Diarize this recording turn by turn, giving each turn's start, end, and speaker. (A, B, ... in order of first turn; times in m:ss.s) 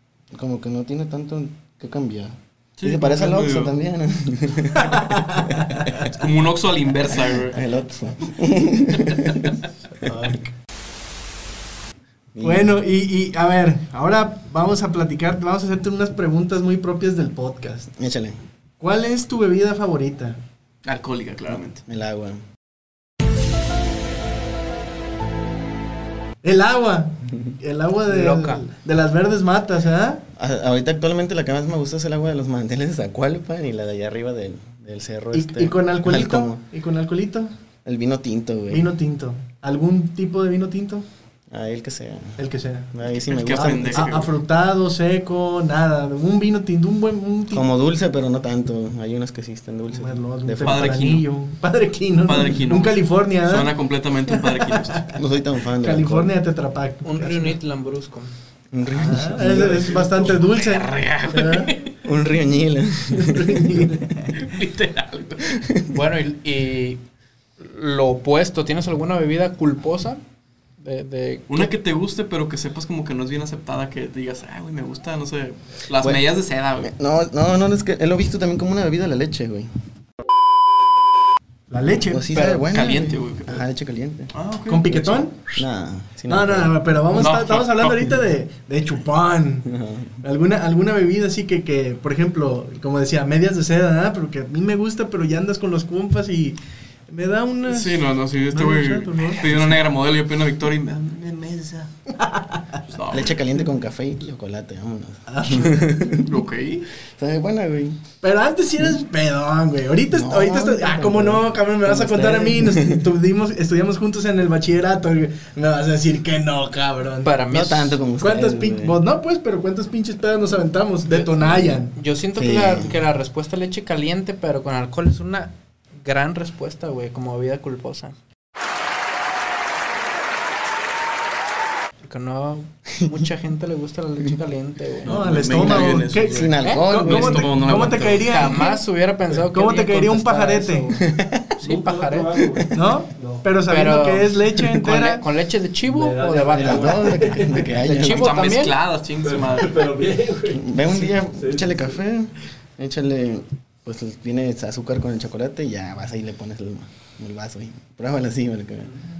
0:00.3-0:06.1 A
0:02.8-0:03.7 B
0:04.8-0:05.5 C
0:06.0-0:07.6 B
0:07.1-0:10.1 A
0:10.0-0:10.5 C
0:12.3-0:12.7 A
0:12.4-0:17.9 C
0:18.0-0:18.4 A
0:18.8-0:20.4 C
0:20.8-0:21.8 B
0:21.5-0:22.4 A
0:26.4-0:30.2 C
0:28.1-0:28.6 D
0:30.4-0:36.6 A
0:35.3-0:37.5 C
0:37.8-0:38.8 A
0:38.7-0:41.0 C
0:41.5-0:42.4 A
0:42.4-0:42.9 C
0:42.9-0:44.2 A
0:43.3-0:44.3 B
0:43.9-0:47.6 C
0:47.5-0:51.0 A
0:49.9-0:53.7 C
0:50.6-0:51.2 B
0:52.2-0:55.1 B
0:54.3-0:55.1 C
0:55.1-0:56.3 A
0:55.8-0:57.6 C
0:57.0-0:58.3 D
0:58.7-0:59.9 A
0:58.9-1:01.7 C
0:59.4-1:00.4 E
1:00.2-1:02.0 B
1:02.0-1:04.0 A
1:03.1-1:04.4 C
1:04.3-1:05.6 B
1:05.5-1:06.0 A
1:05.9-1:07.0 D
1:07.6-1:10.2 D
1:10.8-1:11.7 D
1:11.5-1:16.9 B
1:16.8-1:19.7 A
1:21.7-1:22.6 C
1:21.8-1:24.3 A
1:22.7-1:23.6 B
1:24.3-1:25.4 B
1:24.7-1:25.4 C
1:25.5-1:26.8 A
1:26.3-1:29.7 C
1:27.2-1:28.1 B
1:29.6-1:30.1 A
1:30.2-1:36.6 C
1:37.1-1:39.8 C
1:37.7-1:41.9 B
1:42.2-1:42.6 C
1:42.9-1:43.3 B
1:43.1-1:46.4 A
1:45.3-1:45.8 C
1:46.2-1:46.9 B
1:47.1-1:48.0 A
1:48.2-1:57.3 C
1:50.1-1:53.0 A
1:57.2-1:58.0 D
1:57.5-1:58.9 A
1:58.2-2:01.9 C
2:01.9-2:08.2 D
2:02.3-2:03.0 A
2:12.0-2:15.2 D
2:15.0-2:18.8 C
2:15.0-2:18.6 B
2:15.5-2:18.1 A
2:18.3-2:21.1 D
2:19.5-2:20.9 C
2:20.9-2:21.6 A
2:21.6-2:23.5 E
2:21.6-2:22.4 D
2:22.7-2:25.2 C
2:23.7-2:28.7 D
2:25.8-2:27.7 E
2:26.5-2:28.4 A
2:28.0-2:29.9 B
2:29.2-2:32.0 E
2:30.5-2:38.9 A